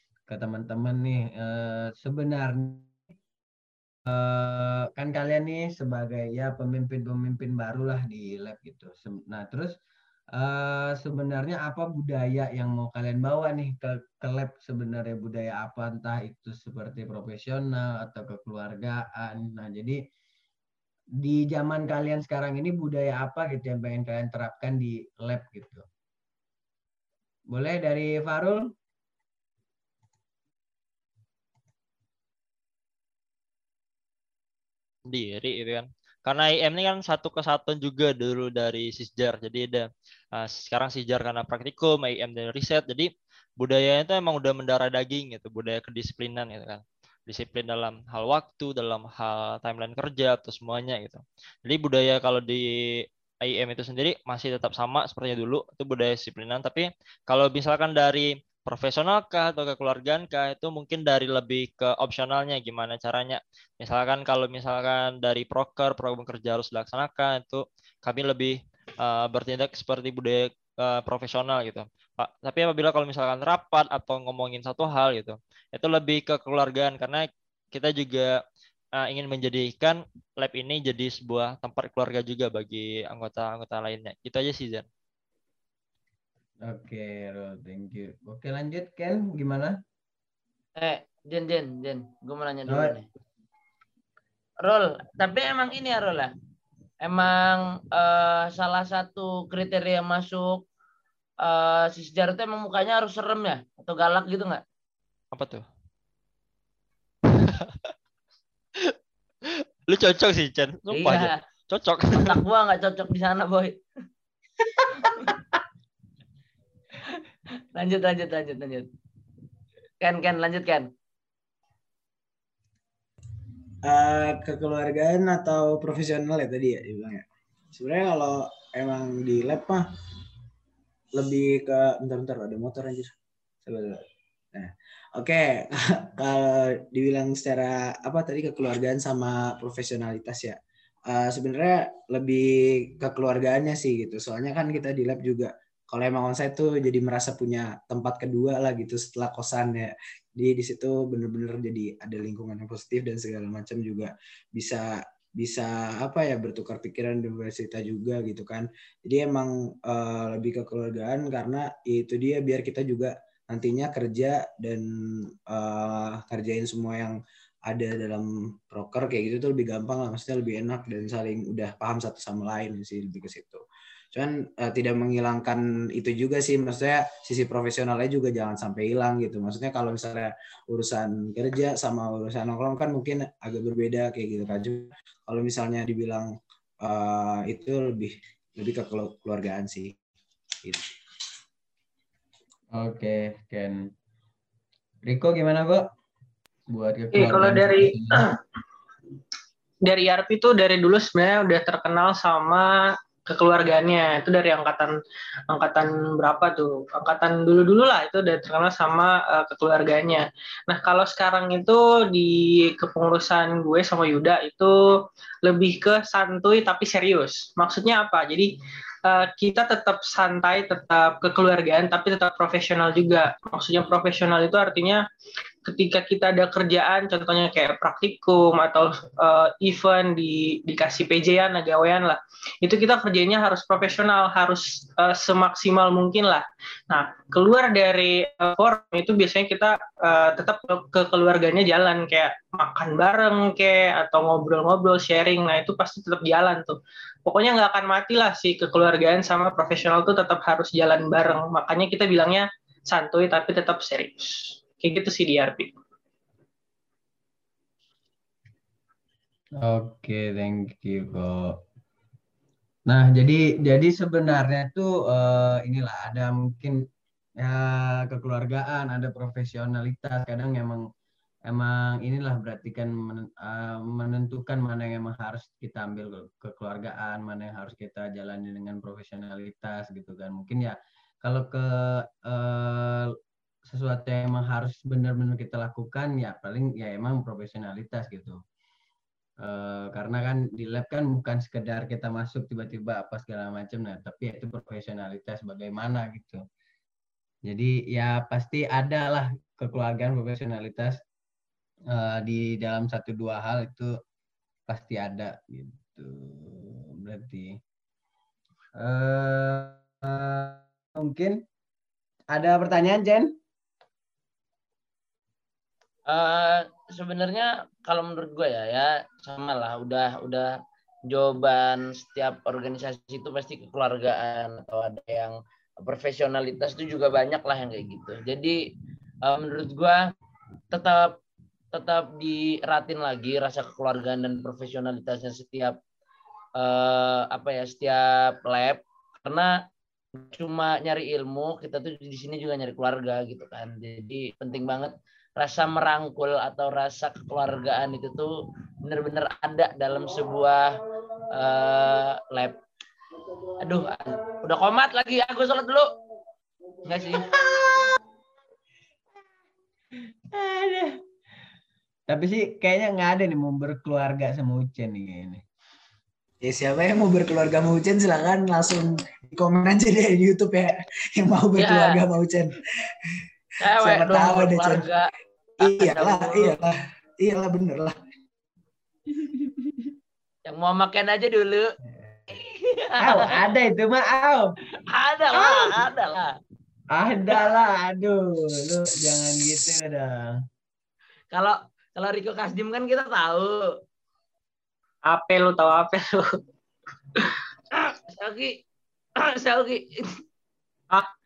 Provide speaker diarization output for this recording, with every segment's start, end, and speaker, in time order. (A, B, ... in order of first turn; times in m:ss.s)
0:00.3-0:02.9 A
0:04.1-0:09.8 A
0:10.4-0:20.0 A
0:21.2-0:25.8 A
0:27.5-0:28.7 A
0:35.1-1:18.4 B
1:19.0-1:24.8 B
1:26.7-1:29.8 A
1:30.8-1:33.0 C
1:32.7-1:33.0 A
1:34.6-1:36.3 C
1:37.0-1:40.6 C
1:41.4-1:44.6 C
1:45.3-1:45.6 B
1:47.3-1:47.8 B
1:49.5-1:52.4 B
1:50.9-1:51.4 C
1:52.1-1:53.8 C
1:54.8-1:55.1 A
1:57.8-1:58.9 C
2:00.0-2:00.9 C
2:03.8-2:09.9 D
2:11.2-2:13.1 D
2:13.6-2:20.6 D
2:21.1-3:06.3 D
3:06.8-3:10.0 D
3:10.6-3:10.9 D
3:12.8-3:13.8 A
3:15.1-3:15.8 A
3:16.7-3:18.3 A
3:17.1-3:18.4 E
3:19.8-3:25.0 E
3:25.5-3:45.0 E
3:45.7-4:15.7 E
4:19.6-4:21.6 A
4:22.9-4:26.8 A
4:27.4-4:30.8 A
4:31.5-4:43.1 A
4:43.7-4:48.4 A
4:49.4-4:56.4 A
4:57.5-5:01.0 A
5:01.9-5:04.0 A
5:04.7-5:07.6 A
5:08.8-5:11.4 A
5:12.3-5:13.3 A
5:16.1-5:20.5 C
5:21.1-5:28.6 C
5:29.2-5:30.1 C
5:30.7-5:31.2 C
5:31.7-5:35.8 C
5:36.6-5:39.6 C
5:40.2-5:50.8 C
5:51.3-5:52.6 C
5:53.6-5:55.9 C
5:56.9-5:57.3 C
5:57.1-5:57.9 A
6:00.3-6:00.9 A
6:02.1-6:05.4 A
6:06.4-6:14.9 D
6:11.6-6:12.0 C
6:13.6-6:16.6 C
6:15.6-6:18.0 D
6:19.2-6:19.9 A
6:20.5-6:21.7 C
6:22.3-6:23.5 C
6:23.0-6:24.5 A
6:24.9-6:26.3 C
6:25.3-6:25.7 A
6:26.9-6:30.3 A
6:31.3-6:33.6 C
6:35.1-6:36.3 E
6:37.8-6:38.6 C
6:39.2-6:40.2 C